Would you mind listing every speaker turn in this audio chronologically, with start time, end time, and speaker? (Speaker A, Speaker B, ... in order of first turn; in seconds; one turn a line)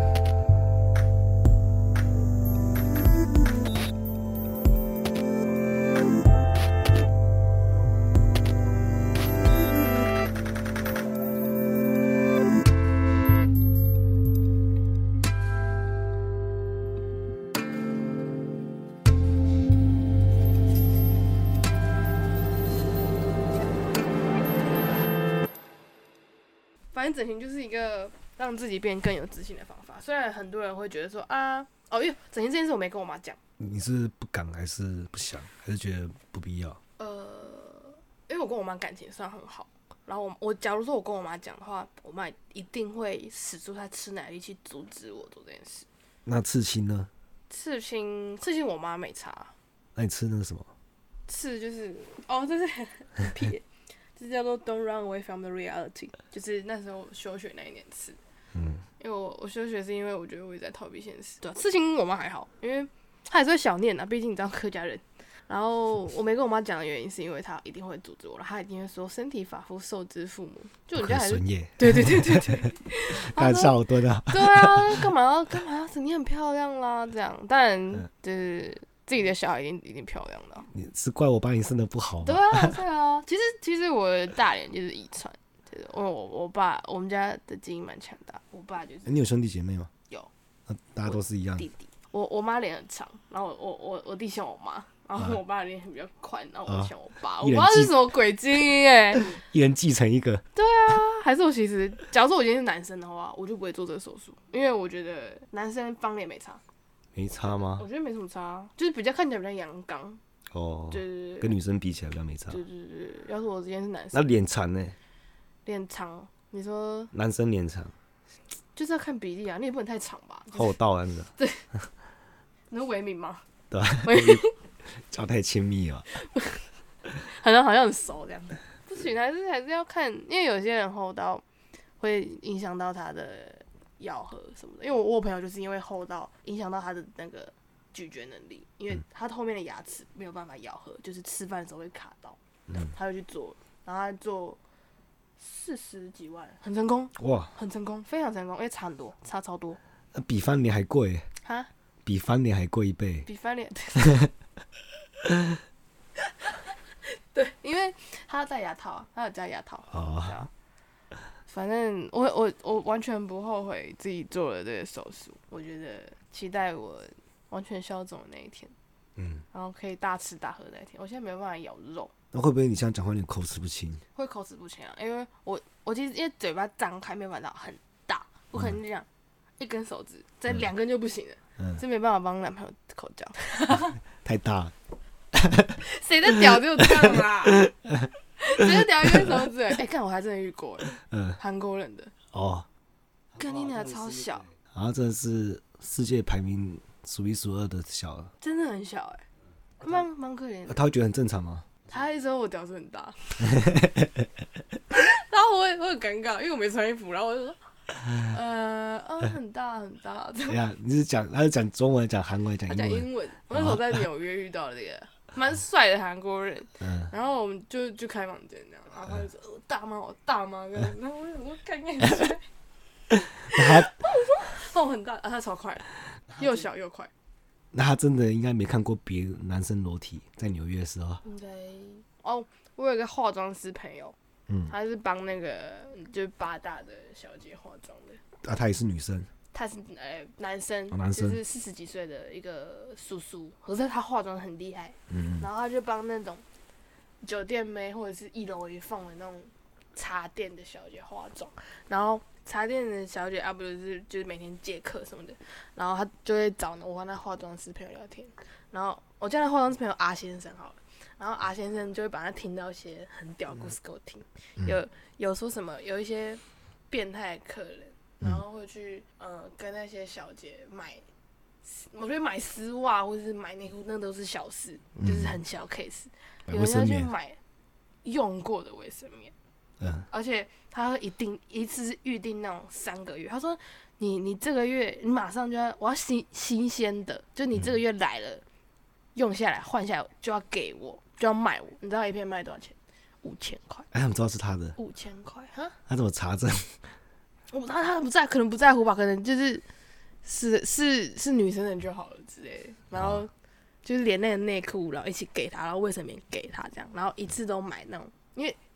Speaker A: 26.9-33.4
Speaker B: 33.6-36.8
Speaker A: 37.0-45.9
Speaker B: 46.2-47.1
Speaker A: 47.5-49.5
Speaker B: 50.0-50.7
Speaker A: 51.3-53.6
Speaker A: 54.1-58.2
Speaker B: 58.5-58.8
Speaker A: 59.0-80.7
Speaker B: 71.0-75.0
Speaker B: 80.7-82.7
Speaker A: 82.2-89.1
Speaker B: 89.0-89.9
Speaker B: 90.7-91.7
Speaker A: 91.0-99.3
Speaker B: 96.7-97.9
Speaker B: 99.2-100.4
Speaker A: 100.5-106.6
Speaker B: 107.1-107.8
Speaker A: 107.5-110.2
Speaker B: 110.5-112.6
Speaker A: 110.9-111.5
Speaker A: 112.5-114.2
Speaker B: 114.1-115.0
Speaker A: 115.6-117.1
Speaker B: 117.1-117.9
Speaker A: 118.7-120.7
Speaker B: 120.5-121.3
Speaker A: 121.4-121.7
Speaker A: 122.7-123.4
Speaker B: 123.7-124.4
Speaker A: 124.0-124.5
Speaker B: 125.1-126.1
Speaker A: 126.1-126.7
Speaker A: 127.2-131.4
Speaker A: 132.0-142.4
Speaker A: 142.9-144.6
Speaker A: 145.4-149.8
Speaker B: 147.2-147.5
Speaker B: 150.1-151.3
Speaker A: 151.4-151.7
Speaker B: 152.0-153.3
Speaker A: 153.2-154.1
Speaker B: 154.0-154.3
Speaker A: 156.4-160.5
Speaker B: 159.9-160.5
Speaker A: 161.5-168.7
Speaker B: 169.2-169.4
Speaker A: 169.5-172.1
Speaker B: 172.3-174.0
Speaker A: 174.1-179.1
Speaker A: 179.6-184.0
Speaker B: 184.2-184.7
Speaker B: 185.3-185.8
Speaker A: 185.8-187.7
Speaker B: 187.6-188.1
Speaker A: 188.4-192.1
Speaker B: 191.0-191.4
Speaker B: 192.3-192.7
Speaker A: 193.3-194.5
Speaker B: 194.7-198.3
Speaker A: 198.4-199.2
Speaker A: 199.8-200.8
Speaker B: 200.7-201.7
Speaker A: 201.9-203.4
Speaker B: 203.4-204.3
Speaker A: 204.9-207.6
Speaker A: 208.3-210.6
Speaker B: 210.5-213.9
Speaker A: 212.7-222.5
Speaker B: 216.8-217.1
Speaker A: 223.5-227.1
Speaker B: 223.5-223.9
Speaker B: 227.7-231.2
Speaker A: 231.2-234.2
Speaker A: 234.7-238.2
Speaker B: 238.4-239.3
Speaker A: 239.5-246.4
Speaker B: 240.9-241.4
Speaker B: 245.1-245.5
Speaker A: 247.2-271.0
Speaker A: 271.6-277.4
Speaker B: 274.9-275.4
Speaker B: 276.5-277.1
Speaker A: 278.0-279.3
Speaker B: 279.8-280.1
Speaker A: 280.1-288.4
Speaker A: 289.1-293.9
Speaker B: 293.9-294.8
Speaker A: 294.8-295.8
Speaker B: 295.9-296.8
Speaker A: 297.5-299.6
Speaker A: 300.2-303.3
Speaker B: 302.9-303.2
Speaker A: 303.8-308.6